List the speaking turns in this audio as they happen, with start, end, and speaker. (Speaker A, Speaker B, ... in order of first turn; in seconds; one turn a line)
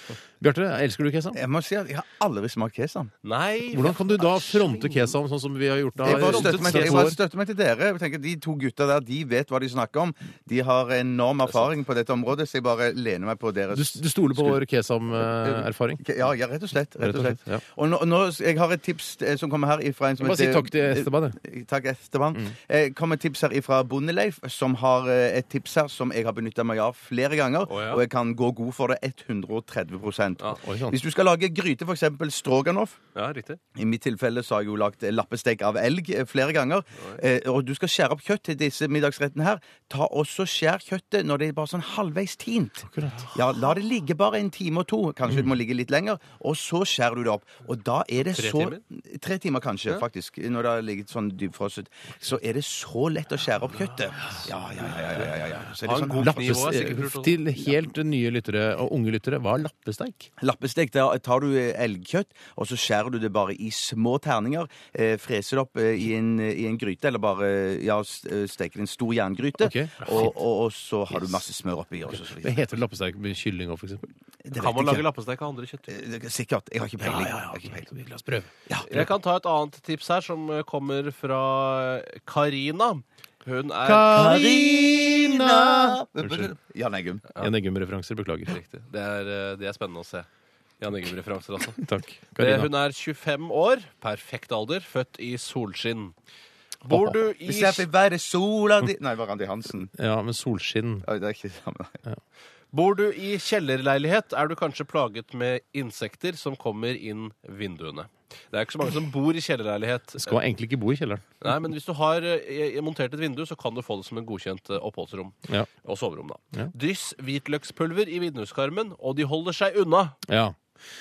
Speaker A: 0.4-1.4
Speaker B: 1.3-3.1
Speaker C: 3.2-4.9
Speaker A: 3.7-7.2
Speaker B: 6.0-14.6
Speaker C: 6.1-7.0
Speaker A: 13.7-16.0
Speaker B: 15.2-33.0
Speaker A: 17.0-17.6
Speaker A: 20.2-21.4
Speaker C: 27.7-28.0
Speaker A: 30.6-31.0
Speaker C: 33.1-33.6
Speaker B: 33.8-56.7
Speaker A: 42.9-43.3
Speaker C: 48.3-48.8
Speaker C: 55.8-57.4
Speaker A: 56.2-60.3
Speaker B: 60.4-72.7
Speaker A: 69.6-70.3
Speaker A: 72.4-74.0
Speaker B: 74.5-75.1
Speaker C: 74.6-75.9
Speaker B: 75.9-77.9
Speaker A: 77.0-79.0
Speaker B: 78.7-79.0
Speaker C: 78.9-84.2
Speaker A: 83.8-86.5
Speaker B: 84.1-87.2
Speaker A: 87.4-88.5
Speaker C: 88.5-90.3
Speaker C: 90.8-91.8
Speaker A: 91.8-92.7
Speaker C: 92.4-96.1
Speaker C: 96.8-97.9
Speaker A: 96.9-97.2
Speaker B: 97.4-99.9
Speaker A: 100.0-101.1
Speaker B: 101.0-102.0
Speaker C: 102.7-110.4
Speaker A: 110.2-111.2
Speaker C: 111.4-115.3
Speaker C: 115.8-120.2
Speaker A: 120.3-120.6